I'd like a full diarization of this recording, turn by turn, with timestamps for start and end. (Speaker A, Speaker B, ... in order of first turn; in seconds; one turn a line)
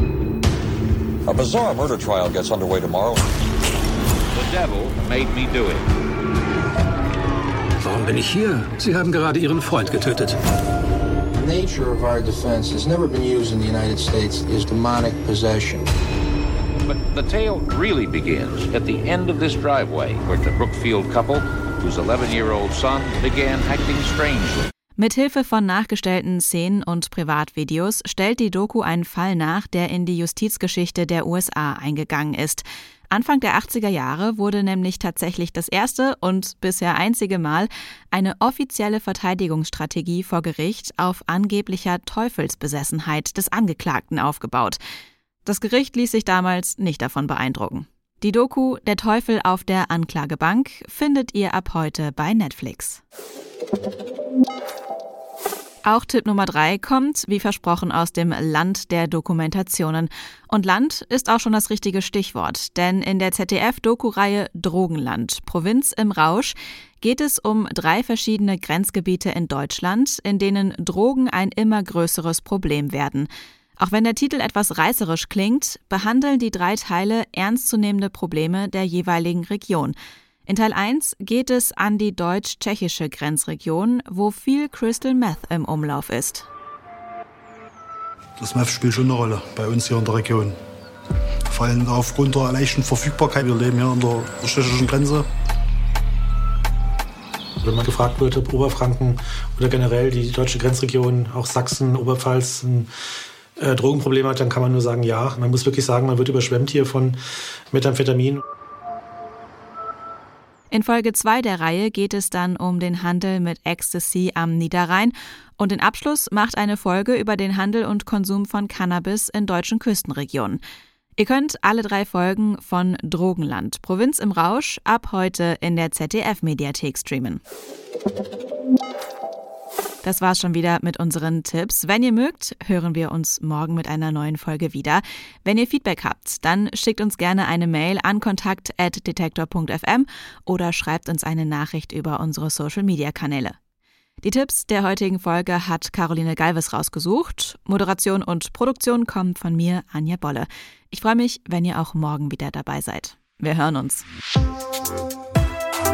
Speaker A: 1.3-3.2
Speaker B: 4.4-5.8
Speaker C: 7.8-10.3
Speaker D: 11.3-15.9
Speaker B: 16.9-24.7
Speaker E: 25.0-44.8
Speaker E: 45.4-53.0
Speaker E: 55.8-79.9
Speaker E: 80.5-86.5
Speaker F: 88.4-90.6
Speaker F: 91.5-95.3
Speaker G: 97.6-102.9
Speaker G: 103.6-107.2
Speaker G: 107.7-108.4
Speaker E: 110.7-120.6
Speaker E: 121.2-127.4
Speaker E: 130.0-143.6
Speaker E: 144.2-154.0